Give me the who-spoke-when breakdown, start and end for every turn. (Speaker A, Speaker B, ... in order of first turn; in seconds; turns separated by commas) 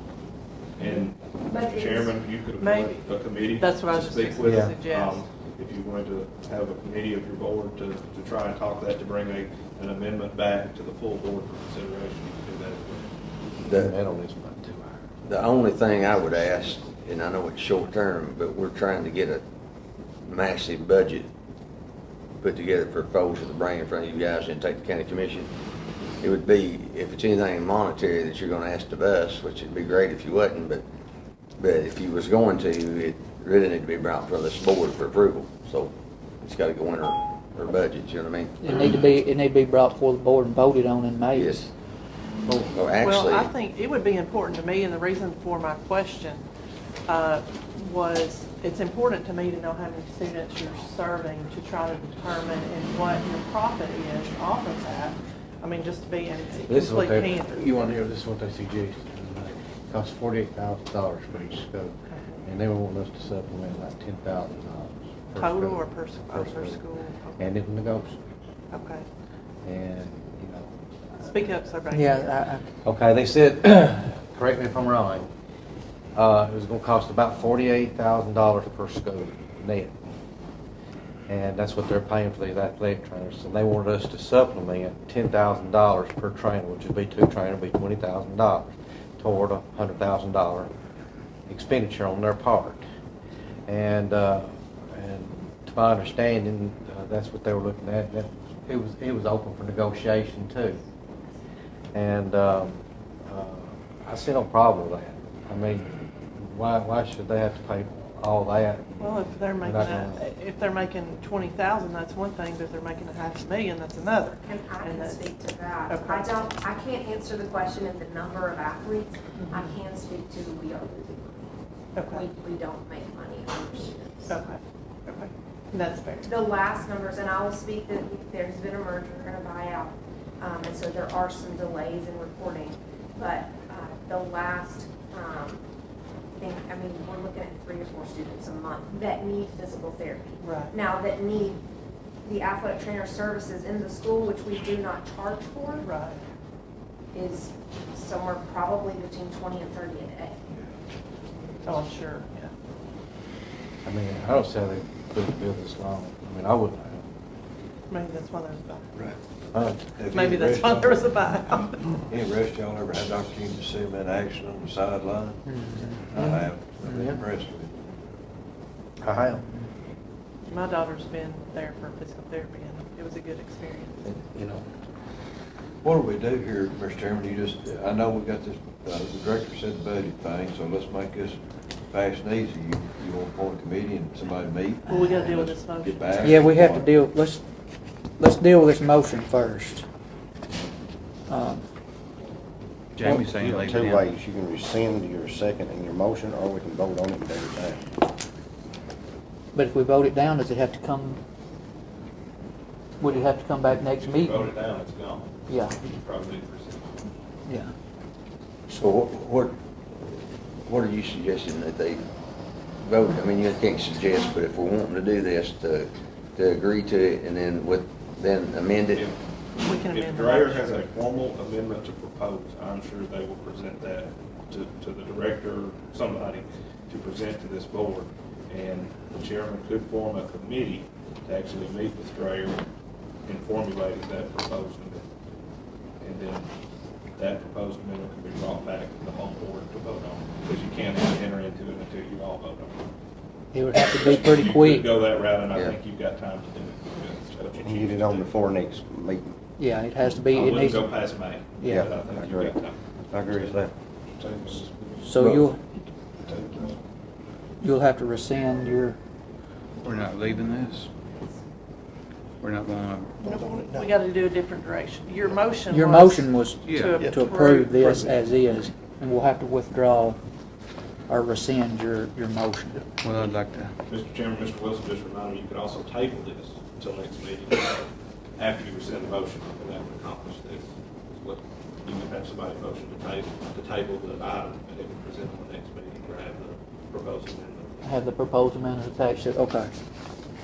Speaker A: 0.8-13.1, Speaker B: 0.8-2.2, Speaker C: 2.6-5.2, Speaker D: 4.4-4.8, Speaker E: 13.6-13.9, Speaker D: 13.7-15.0, Speaker E: 15.2-19.4, Speaker E: 20.2-21.3, Speaker E: 22.4-25.5, Speaker E: 26.2-30.8, Speaker E: 31.6-38.6, Speaker F: 38.6-41.7, Speaker E: 41.3-41.6, Speaker E: 42.7-43.5, Speaker C: 43.0-46.4, Speaker C: 47.1-57.7, Speaker D: 56.7-66.8, Speaker C: 62.1-62.4, Speaker C: 65.4-67.4, Speaker D: 67.4-68.2, Speaker C: 68.7-69.0, Speaker D: 69.6-70.7, Speaker C: 71.3-72.4, Speaker F: 71.9-72.6, Speaker D: 72.8-75.3, Speaker D: 76.1-79.9, Speaker D: 81.3-90.7, Speaker D: 91.5-92.8, Speaker D: 93.7-100.8, Speaker D: 101.9-110.2, Speaker C: 109.0-115.3, Speaker B: 114.4-124.4, Speaker C: 115.9-116.3, Speaker C: 119.3-119.7, Speaker C: 122.0-122.2, Speaker C: 124.3-126.3, Speaker B: 126.2-135.6, Speaker B: 136.4-141.6, Speaker C: 140.4-140.7, Speaker B: 142.2-145.9, Speaker C: 145.7-146.2, Speaker B: 147.1-150.3, Speaker C: 151.6-152.5, Speaker D: 153.8-157.0, Speaker C: 157.9-158.9, Speaker D: 159.5-159.8, Speaker G: 160.0-161.3, Speaker C: 160.1-162.0, Speaker G: 162.0-167.7, Speaker F: 165.4-166.2, Speaker D: 166.2-166.4, Speaker D: 169.0-169.4, Speaker F: 169.3-169.6, Speaker C: 170.5-174.0, Speaker D: 174.0-174.6, Speaker G: 175.8-186.9, Speaker C: 184.9-186.5, Speaker F: 186.2-187.4, Speaker F: 188.2-189.8, Speaker F: 191.3-191.6, Speaker H: 192.9-194.0, Speaker I: 193.0-197.8, Speaker F: 199.5-201.2, Speaker F: 203.0-204.6, Speaker A: 203.0-207.1, Speaker F: 205.5-205.8, Speaker E: 208.7-209.6, Speaker E: 210.6-212.0, Speaker E: 212.8-219.1, Speaker C: 219.6-220.7, Speaker A: 219.7-232.6, Speaker A: 233.2-235.0, Speaker A: 236.0-236.5, Speaker A: 237.2-242.8, Speaker F: 243.5-244.9, Speaker A: 243.7-248.3, Speaker E: 245.5-245.8, Speaker I: 247.6-249.3, Speaker F: 249.6-251.0, Speaker A: 250.3-253.6, Speaker F: 251.6-251.8, Speaker I: 251.7-252.6, Speaker I: 253.1-253.7, Speaker A: 254.1-255.6, Speaker F: 255.0-255.6, Speaker A: 256.2-256.8, Speaker F: 257.6-259.0, Speaker H: 259.8-260.9, Speaker H: 262.4-263.4, Speaker C: 263.2-268.1, Speaker F: 265.7-270.2, Speaker H: 266.6-267.1, Speaker F: 271.1-272.8, Speaker H: 273.0-273.7, Speaker A: 273.9-277.9, Speaker A: 278.4-287.8, Speaker F: 287.8-289.7